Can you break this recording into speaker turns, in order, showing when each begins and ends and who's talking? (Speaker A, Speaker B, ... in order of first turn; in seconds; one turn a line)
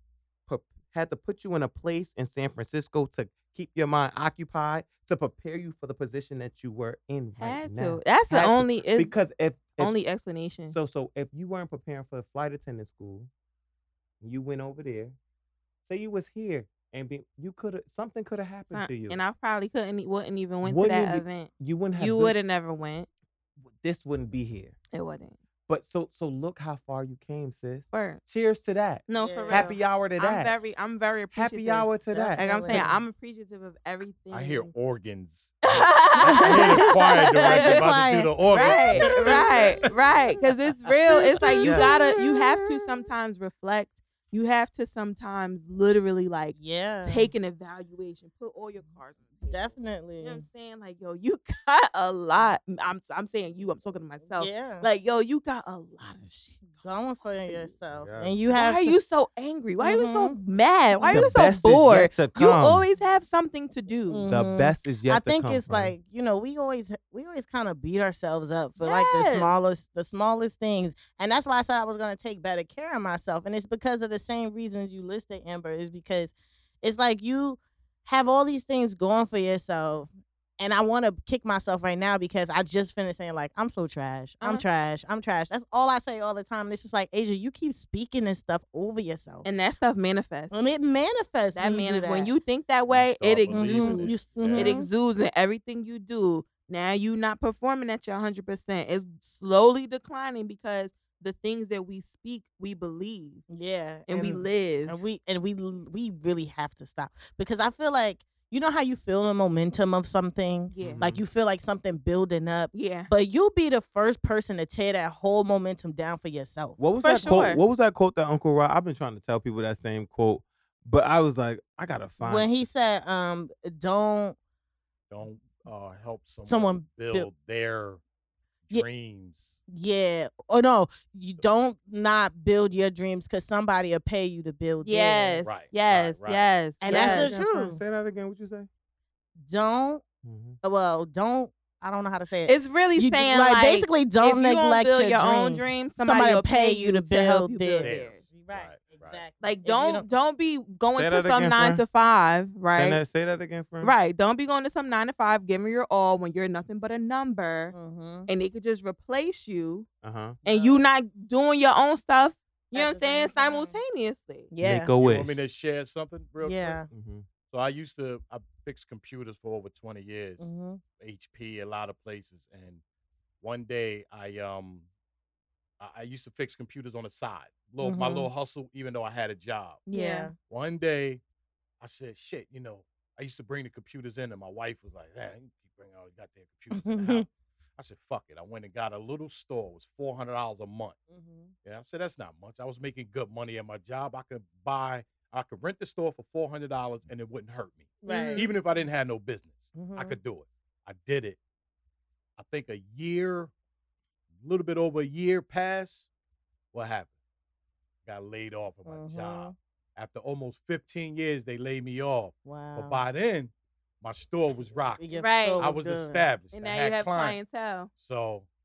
Speaker A: 0.5-9.9
Speaker B: 7.4-9.1
Speaker B: 9.8-10.8
Speaker A: 10.7-13.3
Speaker A: 14.2-15.2
Speaker A: 15.9-19.2
Speaker B: 18.7-23.1
Speaker A: 20.6-22.4
Speaker A: 23.6-24.8
Speaker B: 24.9-25.4
Speaker A: 25.7-30.5
Speaker B: 27.9-28.2
Speaker B: 29.1-34.7
Speaker C: 29.2-29.8
Speaker A: 31.3-32.9
Speaker C: 32.1-33.0
Speaker D: 34.3-39.9
Speaker B: 35.7-37.9
Speaker C: 36.2-40.4
Speaker B: 38.5-56.8
Speaker C: 41.1-42.7
Speaker A: 41.6-41.9
Speaker C: 46.5-47.3
Speaker C: 49.5-50.5
Speaker C: 54.4-54.9
Speaker C: 56.8-59.0
Speaker A: 57.9-58.4
Speaker B: 58.5-64.3
Speaker C: 59.8-60.4
Speaker C: 60.9-61.4
Speaker A: 61.1-62.9
Speaker C: 64.1-89.5
Speaker A: 64.3-65.9
Speaker B: 68.8-69.6
Speaker B: 89.4-90.5
Speaker C: 90.5-92.3
Speaker B: 91.5-103.4
Speaker D: 92.9-94.8
Speaker C: 93.5-94.9
Speaker C: 103.5-116.8
Speaker B: 104.1-105.0
Speaker B: 110.7-111.0
Speaker A: 110.8-111.2
Speaker B: 112.7-113.1
Speaker A: 116.8-122.5
Speaker B: 117.0-117.6
Speaker C: 122.2-124.4
Speaker D: 125.1-128.0
Speaker C: 126.5-127.3
Speaker D: 128.7-129.6
Speaker C: 129.7-135.4
Speaker B: 134.8-137.3
Speaker D: 135.4-136.4
Speaker C: 136.8-137.8
Speaker A: 136.9-138.7
Speaker C: 139.4-140.0
Speaker A: 140.2-140.6
Speaker C: 140.6-150.1
Speaker B: 142.5-148.2
Speaker D: 147.8-149.2
Speaker B: 149.4-153.0
Speaker A: 150.9-151.8
Speaker A: 152.7-153.9
Speaker B: 153.8-157.8
Speaker C: 157.7-158.3
Speaker B: 158.3-159.9
Speaker A: 160.0-160.4
Speaker C: 160.4-160.9
Speaker B: 160.4-164.5
Speaker C: 162.7-163.8
Speaker C: 164.5-164.9
Speaker A: 164.6-165.5
Speaker D: 165.0-166.8
Speaker C: 166.4-166.9
Speaker A: 166.9-167.3
Speaker D: 167.5-172.8
Speaker C: 170.4-170.8
Speaker D: 173.4-174.9
Speaker D: 175.8-179.8
Speaker C: 177.8-178.3
Speaker C: 179.9-180.3
Speaker B: 179.9-180.3
Speaker D: 180.5-181.2
Speaker D: 181.8-191.0
Speaker C: 186.8-187.2
Speaker C: 191.1-191.5
Speaker D: 191.6-201.4
Speaker C: 198.0-198.5
Speaker B: 198.1-198.5
Speaker C: 199.8-200.2
Speaker D: 202.4-203.5
Speaker D: 204.4-206.1
Speaker D: 206.7-207.1
Speaker D: 208.1-217.4
Speaker C: 208.9-209.5
Speaker C: 212.4-213.0
Speaker C: 215.0-216.3
Speaker B: 215.2-215.7
Speaker B: 216.5-217.9
Speaker D: 218.0-218.5